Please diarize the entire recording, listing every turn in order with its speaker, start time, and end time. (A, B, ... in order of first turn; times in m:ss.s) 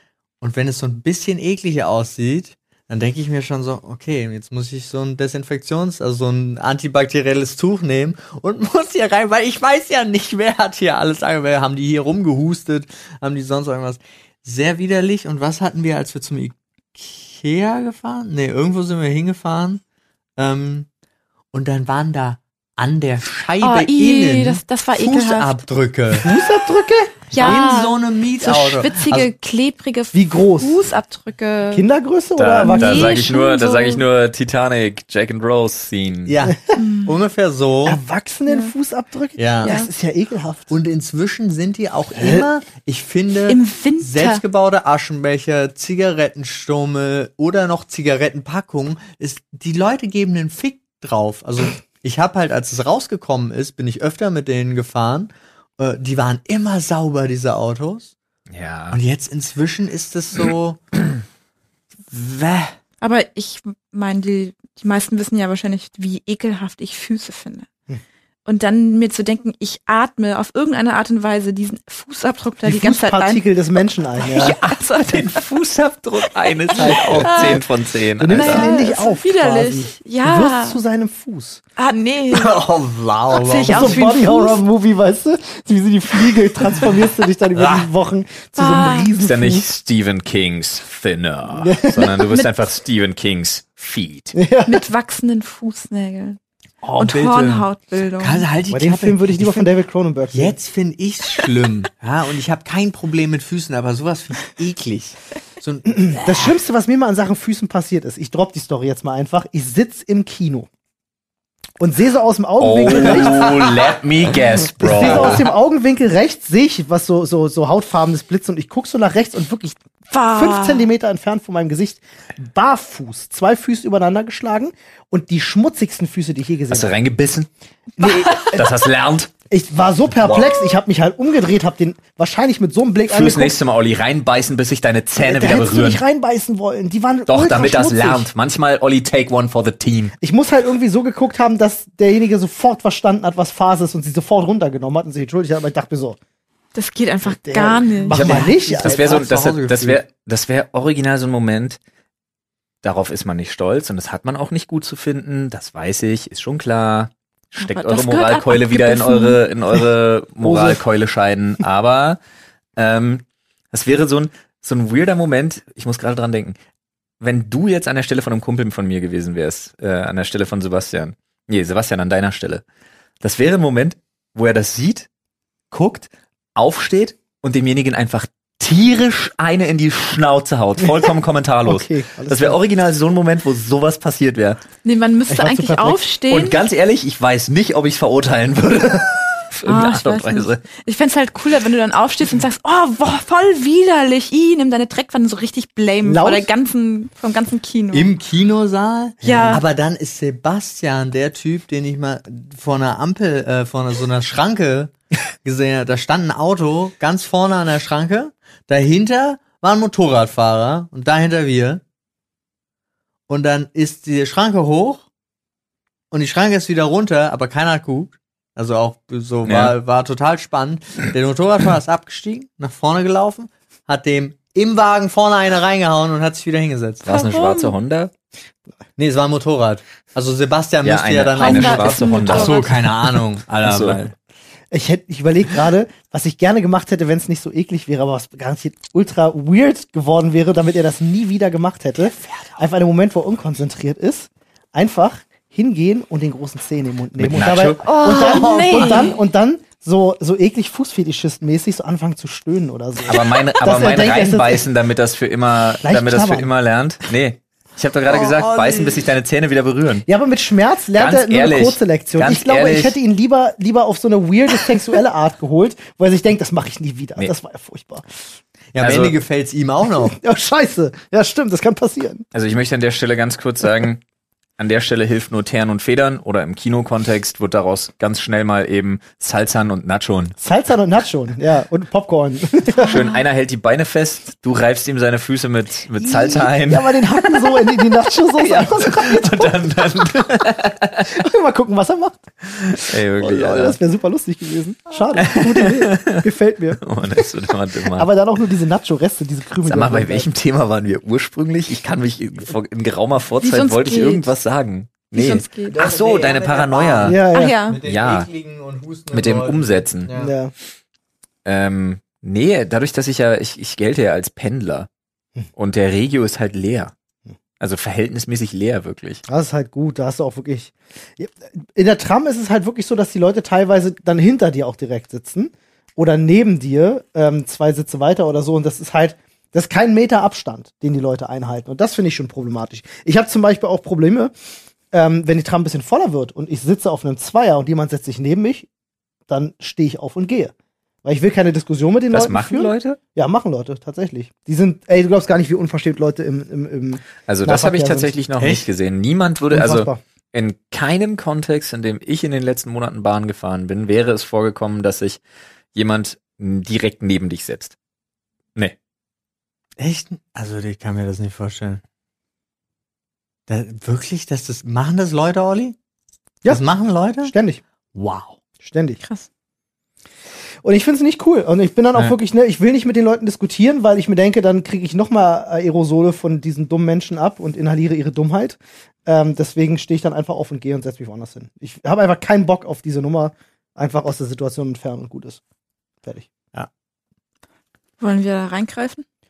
0:00.4-0:19.8 A
0:20.4-0:20.9 A
0:21.5-0:26.4 A
0:23.6-0:25.6 B
0:26.1-0:27.2 C
0:27.3-0:31.8 B
0:27.4-0:29.3 A
0:30.1-0:30.8 C
0:31.7-0:33.3 C
0:32.4-0:36.3 D
0:32.6-0:34.0 B
0:36.2-0:38.0 A
0:36.7-0:37.1 B
0:37.8-0:40.7 C
0:38.5-0:38.7 B
0:39.4-0:39.8 A
0:39.6-0:39.9 B
0:40.7-0:58.1 A
0:42.2-0:42.5 C
0:43.5-0:44.4 B
0:58.5-0:59.0 D
0:58.9-1:00.8 A
1:02.1-1:02.8 A
1:03.0-1:07.7 B
1:08.4-1:13.4 B
1:12.6-1:14.6 C
1:14.2-1:15.4 B
1:14.4-1:18.7 D
1:16.2-1:17.6 B
1:16.7-1:17.6 C
1:18.2-1:21.6 C
1:18.3-1:20.8 B
1:21.8-1:22.5 B
1:22.3-1:24.0 A
1:23.3-1:24.6 B
1:23.7-1:29.7 C
1:27.6-1:27.9 A
1:28.5-1:29.1 B
1:29.2-1:34.4 D
1:31.5-1:32.3 C
1:34.3-1:34.8 C
1:34.6-1:36.4 B
1:36.8-1:37.7 A
1:37.0-1:38.4 B
1:38.2-1:39.7 A
1:38.7-1:40.6 C
1:40.3-1:46.5 A
1:45.8-1:50.7 C
1:51.8-1:53.6 C
1:52.6-1:55.5 D
1:52.8-1:54.0 A
1:54.8-1:59.8 C
1:54.8-1:55.5 A
2:00.1-2:00.9 B
2:00.3-2:07.0 C
2:06.7-2:09.3 D
2:08.0-2:08.6 C
2:08.0-2:08.5 B
2:09.5-2:13.6 C
2:13.1-2:16.0 D
2:15.2-2:18.3 C
2:17.3-2:20.1 D
2:20.2-2:26.2 C
2:26.7-2:28.2 B
2:27.3-2:29.2 C
2:28.1-2:30.0 A
2:28.1-2:31.8 D
2:32.8-2:42.2 D
2:37.6-2:39.4 B
2:40.4-2:40.8 C
2:42.8-2:46.6 D
2:47.2-2:52.6 D
2:53.2-2:55.1 D
2:55.7-3:04.6 D
3:01.6-3:02.6 C
3:04.8-3:06.6 B
3:05.3-3:06.0 C
3:06.3-3:10.6 D
3:09.6-3:18.1 B
3:16.0-3:16.5 C
3:17.9-3:24.9 A
3:19.2-3:19.6 B
3:25.4-3:31.8 A
3:33.3-3:35.0 A
3:36.1-3:47.1 A
3:39.4-3:39.7 D
3:47.0-3:48.1 D
3:47.1-3:47.7 B
3:49.0-3:54.1 A
3:50.8-3:54.0 D
3:51.3-3:52.7 B
3:54.7-4:14.6 C
4:02.1-4:02.5 A
4:07.2-4:08.5 D
4:07.8-4:09.2 B
4:08.6-4:09.0 A
4:13.1-4:20.1 D
4:15.8-4:16.5 C
4:18.1-4:19.0 B
4:20.1-4:28.0 C
4:20.9-4:23.0 D
4:28.7-4:30.2 A
4:28.8-4:29.2 D
4:30.0-4:32.2 C
4:32.3-4:34.0 D
4:34.6-4:40.4 D
4:40.4-4:43.0 C
4:42.8-4:47.7 D
4:42.8-4:43.2 B
4:46.0-4:49.8 C
4:48.2-4:51.1 D
4:51.1-4:52.3 C
4:52.7-4:53.8 D
4:53.2-4:56.9 C
4:55.2-4:56.2 D
4:56.8-4:58.1 D
4:57.9-5:00.3 C
4:59.6-5:07.2 D
5:03.4-5:04.3 B
5:05.1-5:05.8 B
5:05.7-5:10.3 A
5:07.0-5:07.5 C
5:07.3-5:07.8 B
5:07.8-5:08.3 D
5:09.1-5:10.1 D
5:10.1-5:10.5 C
5:11.4-5:14.9 D
5:15.6-5:16.9 D
5:17.6-5:19.2 D
5:19.3-5:34.3 C
5:34.9-5:38.7 C
5:39.3-5:40.5 C
5:41.0-5:48.1 C
5:42.1-5:43.0 D
5:47.3-5:55.2 D
5:48.4-5:48.7 A
5:49.5-5:50.0 C
5:55.7-5:57.8 D
5:59.8-6:01.8 A
6:03.5-6:05.8 A
6:06.5-6:07.3 A
6:07.2-6:07.6 C
6:08.0-6:08.3 A
6:08.6-6:09.0 C
6:09.0-6:09.3 B
6:10.6-6:25.4 C
6:28.0-6:29.0 B